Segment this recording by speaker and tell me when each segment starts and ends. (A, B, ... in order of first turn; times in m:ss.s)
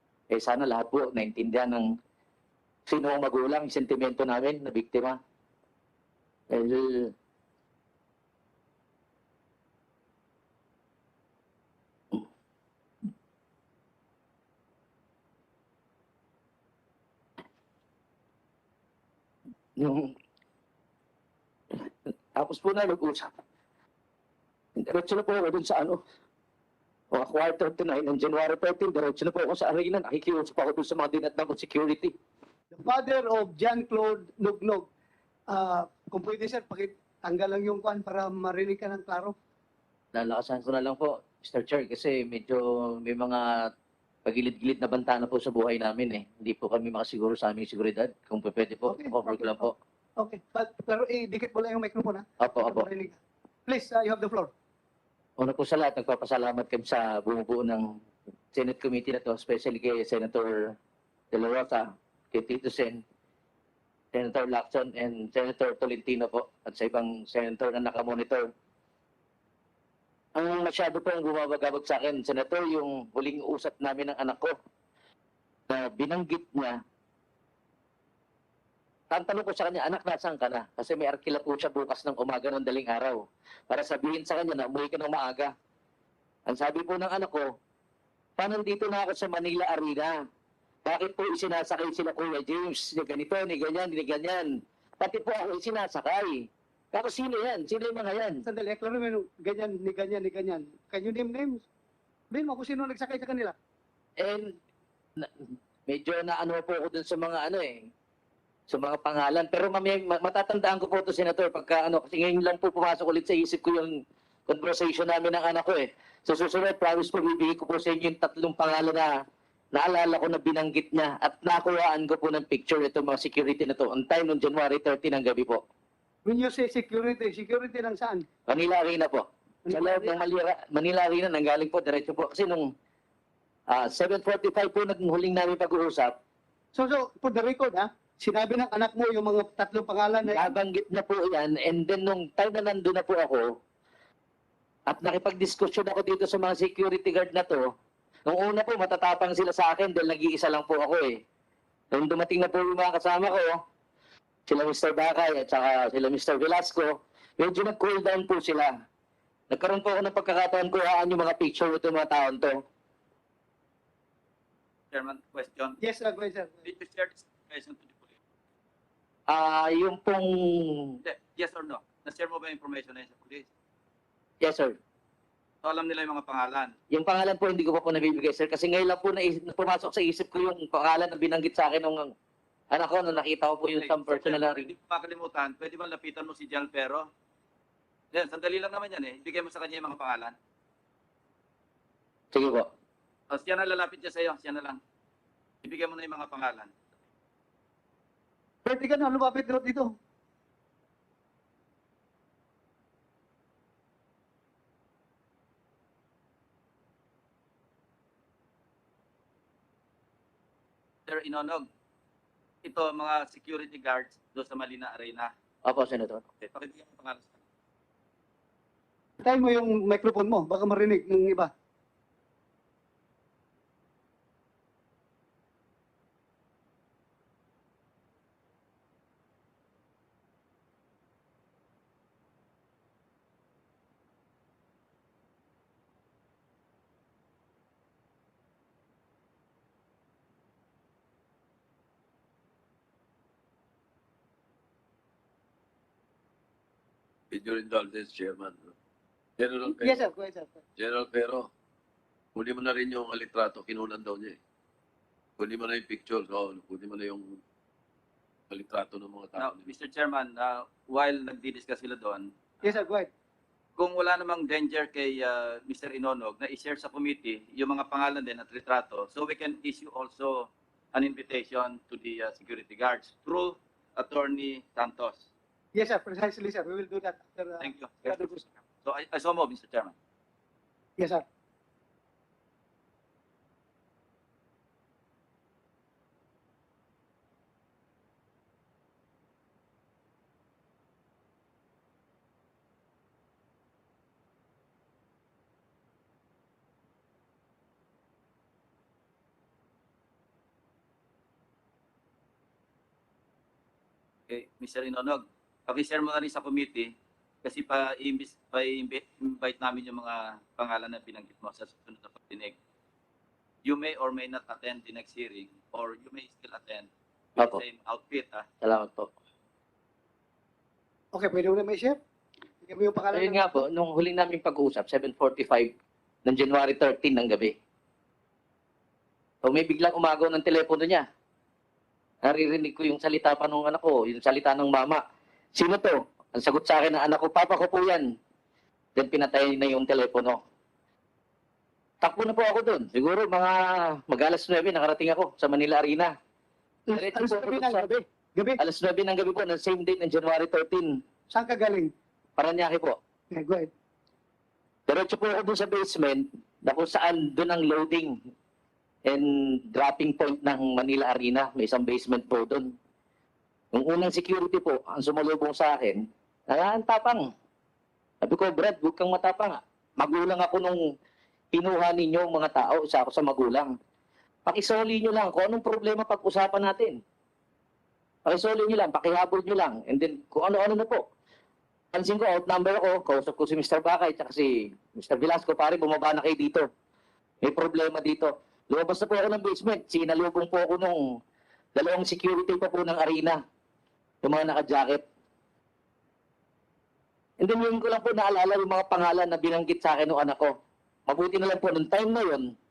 0:00.3-0:01.8 A
0:02.9-0:05.2 A
0:06.5-0:07.1 A
0:19.8-0:20.1 A
0:21.8-0:23.3 A
0:24.8-0:26.0 A
0:27.1-0:32.1 A
0:32.7-0:34.9 B
0:35.5-0:39.3 B
0:40.1-0:43.7 A
0:44.2-0:49.7 A
0:48.8-0:54.5 B
0:52.4-0:52.8 A
0:55.4-0:57.9 A
0:58.5-1:00.7 A
1:01.3-1:03.0 A
1:04.1-1:08.4 A
1:10.4-1:14.5 A
1:15.7-1:16.8 A
1:19.1-1:25.5 A
1:26.5-1:27.4 A
1:28.4-1:30.2 A
1:30.8-1:34.5 A
1:35.0-1:38.4 A
1:38.4-1:41.6 B
1:42.3-1:43.5 B
1:44.2-1:44.6 A
1:45.9-1:47.8 A
1:48.7-1:53.9 A
1:54.5-1:59.1 A
1:59.7-2:05.6 A
2:06.2-2:08.2 B
2:08.5-2:12.7 A
2:09.7-2:10.2 B
2:13.7-2:16.1 A
2:16.7-2:20.5 B
2:20.2-2:23.4 A
2:24.9-2:27.6 A
2:28.3-2:31.1 A
2:31.9-2:33.5 A
2:34.5-2:38.7 A
2:39.5-2:42.6 A
2:44.9-2:45.8 C
2:45.8-2:46.6 B
2:46.6-2:48.2 C
2:49.3-2:50.9 A
2:51.0-2:53.5 C
2:54.4-2:54.7 A
2:55.6-2:56.7 C
2:56.9-3:02.1 A
3:02.7-3:04.7 A
3:03.7-3:07.0 C
3:08.1-3:10.3 C
3:12.3-3:12.7 A
3:13.3-3:14.8 C
3:15.6-3:16.7 C
3:18.6-3:19.9 B
3:31.1-3:31.7 C
3:32.6-3:35.3 C
3:35.7-3:36.2 A
3:36.4-3:37.4 C
3:39.2-3:41.5 B
4:07.3-4:08.8 D
4:09.4-4:10.0 D
4:09.7-4:10.6 B
4:10.8-4:11.5 D
4:12.3-4:14.4 D
4:15.4-4:17.4 D
4:18.5-4:19.7 D
4:19.4-4:22.8 C
4:22.6-4:23.1 B
4:23.8-4:35.2 C
4:35.7-4:38.4 B
4:37.6-4:39.9 C
4:41.0-4:41.2 B
5:04.3-5:06.9 C
5:07.4-5:12.6 C
5:13.6-5:18.4 C
5:18.6-5:19.1 A
5:21.1-5:22.0 B
5:22.6-5:23.6 B
5:23.1-5:25.7 A
5:26.2-5:27.5 A
5:29.4-5:31.0 A
5:32.2-5:35.0 A
5:35.5-5:38.0 A
5:39.0-5:40.4 A
5:42.0-5:46.1 A
5:46.9-5:48.6 B
5:47.0-5:47.8 A
5:48.6-5:50.9 A
5:51.3-5:51.9 B
5:52.4-5:53.0 A
5:53.3-5:53.7 B
5:54.9-5:58.1 A
5:59.0-6:02.7 A
6:03.7-6:07.2 A
6:08.2-6:10.8 A
6:11.5-6:13.7 A
6:14.4-6:17.0 A
6:18.2-6:21.0 A
6:21.9-6:26.6 A
6:27.4-6:31.0 A
6:31.8-6:33.4 A
6:34.2-6:35.0 A
6:37.4-6:40.5 A
6:41.1-6:42.5 A